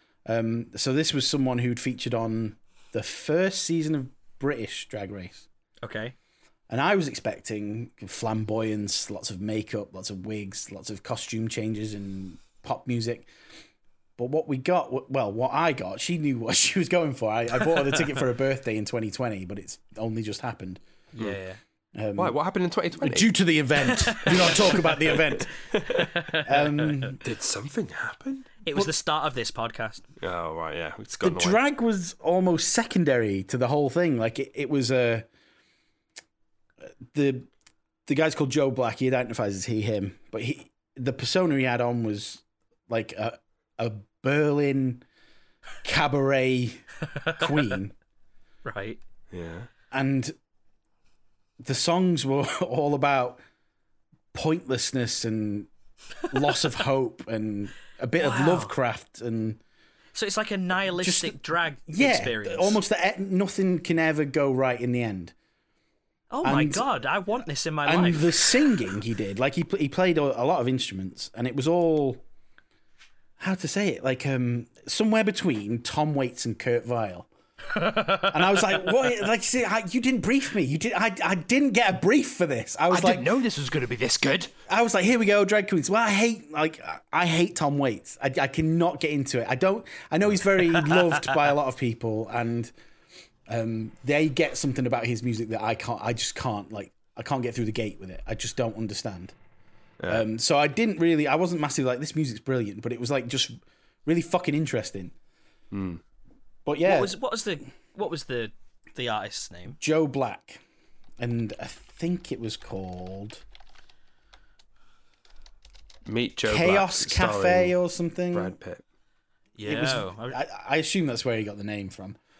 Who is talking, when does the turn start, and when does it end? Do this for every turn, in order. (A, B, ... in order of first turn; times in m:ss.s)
0:00.2-0:05.4 A
0:05.8-0:06.1 B
0:06.7-0:13.3 A
0:14.2-0:20.8 A
0:21.1-0:21.6 B
0:21.9-0:22.4 A
0:22.2-0:23.3 C
0:23.0-0:25.5 A
0:24.0-0:24.5 B
0:24.2-0:26.4 C
0:25.9-0:27.0 B
0:26.4-0:27.2 A
0:27.2-0:28.5 C
0:28.6-0:30.0 B
0:30.2-0:31.6 C
0:31.2-0:35.3 A
0:37.1-0:37.5 A
0:38.0-0:45.0 A
0:45.8-0:46.8 A
0:47.2-0:47.4 B
0:47.4-0:47.9 A
0:48.6-0:49.0 B
0:49.3-0:49.7 C
0:49.9-0:50.3 A
0:51.6-0:53.4 A
0:54.3-0:55.7 A
0:56.3-0:59.6 A
0:58.2-0:58.7 B
1:00.1-1:02.8 B
1:01.0-1:05.3 A
1:06.3-1:08.7 B
1:06.4-1:06.9 A
1:07.8-1:12.2 A
1:13.4-1:17.3 A
1:18.1-1:23.3 A
1:22.9-1:24.5 C
1:24.7-1:32.7 A
1:33.5-1:39.3 A
1:40.1-1:45.1 A
1:45.7-1:46.0 C
1:46.6-1:47.1 A
1:46.8-1:49.8 B
1:49.8-1:50.6 A
1:51.2-1:53.4 A
1:56.0-1:57.7 C
1:56.4-1:58.6 A
1:58.3-1:58.8 C
1:59.6-2:00.4 B
1:59.6-2:02.2 A